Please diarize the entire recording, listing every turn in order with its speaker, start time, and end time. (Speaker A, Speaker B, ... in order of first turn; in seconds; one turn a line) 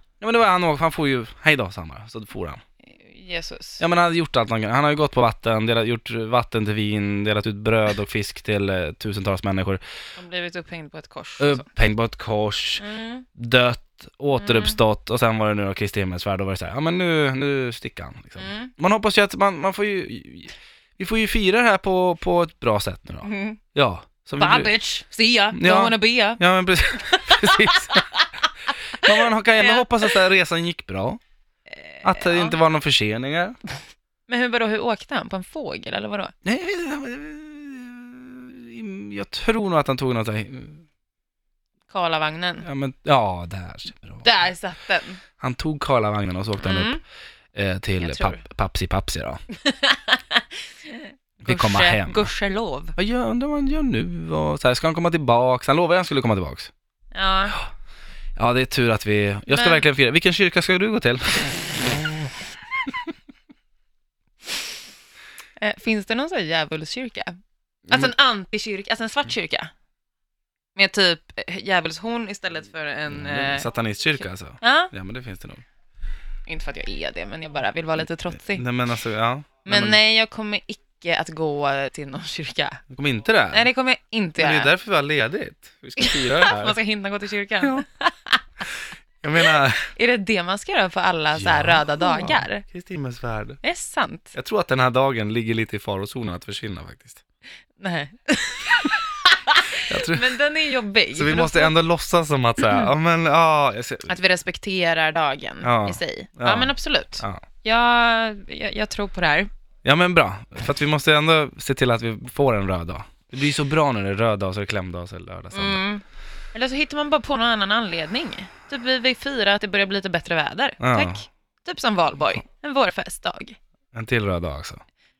Speaker A: 0.2-2.6
Speaker B: 2.9-3.8
Speaker A: 3.8-9.8
Speaker B: 10.2-11.7
Speaker A: 11.4-12.8
Speaker B: 12.8-13.2
Speaker A: 13.3-24.7
Speaker B: 14.4-14.8
Speaker B: 18.4-18.7
Speaker B: 23.2-23.6
Speaker B: 24.4-28.3
Speaker A: 25.5-28.0
Speaker A: 28.9-31.2
Speaker B: 29.0-30.1
Speaker B: 31.9-32.5
Speaker A: 32.0-33.6
Speaker B: 34.3-36.3
Speaker A: 36.4-40.8
Speaker B: 41.9-42.6
Speaker A: 42.6-44.3
Speaker B: 44.2-45.2
Speaker A: 45.4-47.0
Speaker B: 46.6-47.0
Speaker A: 47.5-49.4
Speaker B: 48.0-48.4
Speaker B: 49.5-52.9
Speaker A: 51.4-52.3
Speaker A: 53.0-56.7
Speaker B: 57.1-57.5
Speaker A: 58.4-62.0
Speaker B: 59.5-59.8
Speaker B: 65.6-67.3
Speaker B: 67.9-69.7
Speaker B: 70.7-73.7
Speaker A: 73.1-75.6
Speaker B: 74.6-74.9
Speaker B: 76.5-78.7
Speaker A: 78.3-80.0
Speaker B: 79.7-82.8
Speaker A: 82.9-83.7
Speaker B: 83.5-84.7
Speaker A: 84.4-86.8
Speaker B: 86.0-88.4
Speaker A: 89.2-89.9
Speaker B: 89.9-92.6
Speaker A: 91.3-93.6
Speaker B: 93.6-94.3
Speaker A: 94.3-97.2
Speaker B: 97.8-101.7
Speaker A: 99.8-100.3
Speaker A: 101.1-104.1
Speaker B: 102.6-102.9
Speaker B: 104.1-109.5
Speaker A: 105.6-107.4
Speaker A: 109.8-115.8
Speaker B: 115.5-116.0
Speaker B: 116.5-123.6
Speaker A: 120.8-121.2
Speaker A: 123.9-124.8